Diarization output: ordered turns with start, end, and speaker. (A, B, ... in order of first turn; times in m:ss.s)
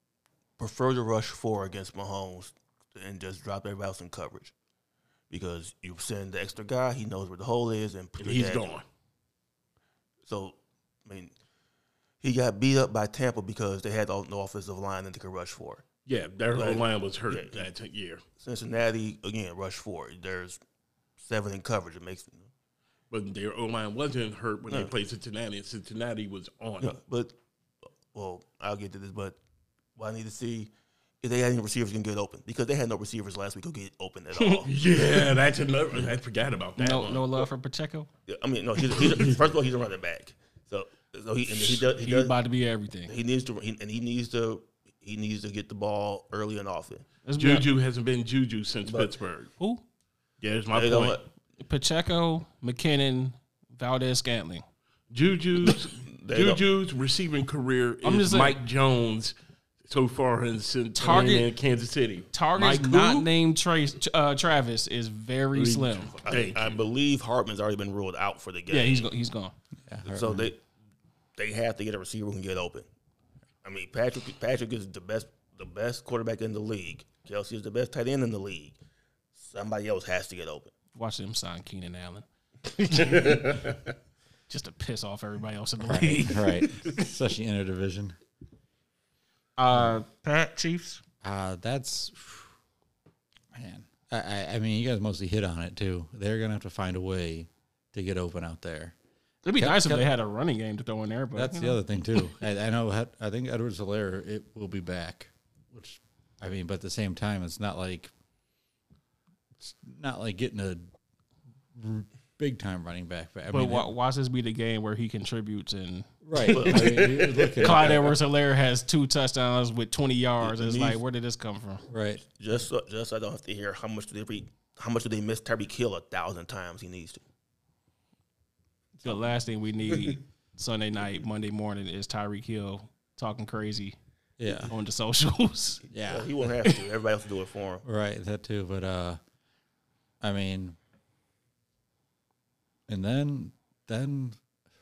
0:00.6-0:04.5 A
0:05.3-0:08.7 A
0:08.2-0:08.9 B
0:10.3-0:11.3 A
0:12.2-0:15.8 A
0:16.1-0:18.2 B
0:16.5-0:17.7 A
0:18.4-0:20.6 A
0:21.2-0:22.5 A
0:23.1-0:27.0 B
0:26.8-0:27.4 A
0:28.1-0:29.4 A
0:30.0-0:30.7 A
0:31.2-0:34.7 A
0:34.4-0:34.7 C
0:34.7-0:37.5 B
0:36.8-0:38.1 C
0:38.3-0:42.4 A
0:38.9-0:39.4 B
0:41.5-0:41.9 B
0:41.9-0:43.2 C
0:43.1-0:47.1 A
0:47.2-0:47.7 C
0:47.4-0:49.5 B
0:49.6-0:49.8 C
0:50.4-0:51.2 B
0:50.7-0:51.3 A
0:51.6-0:54.6 C
0:55.1-0:59.3 B
0:56.1-0:56.6 A
0:58.0-0:58.6 C
0:59.9-1:03.3 B
1:01.0-1:01.5 C
1:02.3-1:06.2 C
1:05.6-1:06.8 B
1:06.2-1:09.1 A
1:08.7-1:09.5 C
1:09.9-1:10.5 D
1:10.0-1:10.6 A
1:11.4-1:12.9 A
1:13.6-1:18.8 A
1:19.4-1:20.7 A
1:21.0-1:23.6 C
1:24.5-1:26.9 C
1:25.8-1:28.2 D
1:29.6-1:31.0 C
1:31.2-1:32.5 D
1:33.5-1:39.0 D
1:39.4-1:42.2 C
1:39.6-1:40.1 D
1:41.4-1:48.1 D
1:49.6-1:50.9 D
1:51.7-1:53.9 D
1:53.5-1:56.9 C
1:56.2-1:58.1 D
1:56.5-1:58.1 A
1:57.0-1:57.5 B
1:57.6-2:01.8 C
2:00.4-2:01.0 A
2:01.9-2:02.2 D
2:02.3-2:07.2 A
2:09.0-2:14.0 C
2:14.4-2:14.7 D
2:14.5-2:15.8 C
2:15.9-2:16.4 D
2:16.1-2:17.8 A
2:17.8-2:19.2 D
2:20.2-2:20.8 D
2:22.9-2:24.4 D